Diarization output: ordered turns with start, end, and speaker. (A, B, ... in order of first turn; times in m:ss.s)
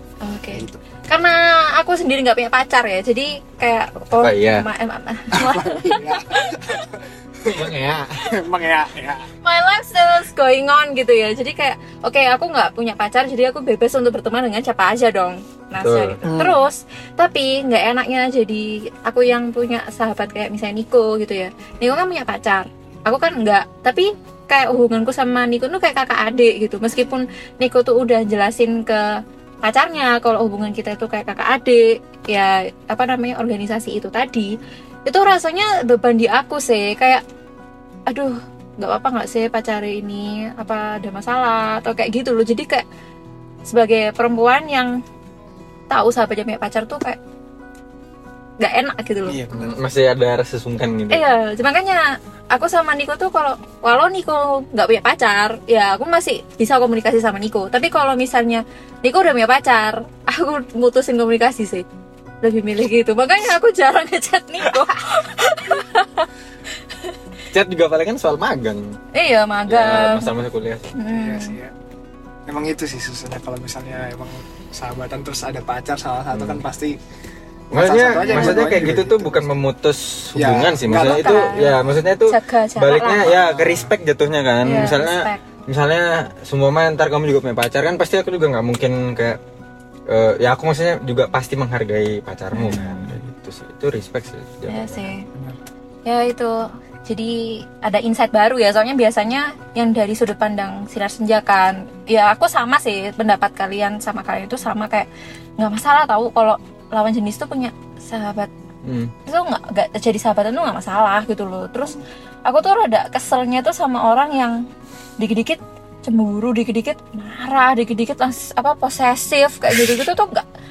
0:00.2-0:07.0 A
0:00.5-0:00.8 B
0:04.2-0:04.7 C
0:05.3-0:07.7 B
0:07.5-0:08.3 C
0:08.2-0:09.3 B
0:09.4-0:37.2 A
0:15.8-0:16.2 C
0:16.2-0:16.6 B
0:38.1-0:42.8 A
0:43.7-0:44.9 A
0:45.9-0:47.2 A
0:48.6-0:49.4 A
0:49.3-0:49.7 B
0:49.5-0:51.2 C
0:51.1-1:01.9 A
1:02.4-1:07.2 A
1:07.5-1:09.0 C
1:09.1-1:10.4 A
1:09.7-1:10.9 C
1:11.0-1:11.6 A
1:11.1-1:11.7 B
1:12.5-1:17.0 B
1:16.3-1:16.6 C
1:17.7-1:29.4 C
1:17.7-1:19.6 B
1:18.2-1:18.9 A
1:20.4-1:21.4 B
1:20.9-1:21.7 A
1:22.3-1:23.3 A
1:23.2-1:23.9 B
1:24.6-1:25.4 A
1:30.1-1:35.1 C
1:32.5-1:33.1 A
1:34.7-1:35.2 A
1:35.3-1:35.6 B
1:36.0-1:45.1 A
1:45.6-1:48.5 A
1:48.8-1:49.1 C
1:49.2-1:54.6 A
1:55.2-2:00.4 A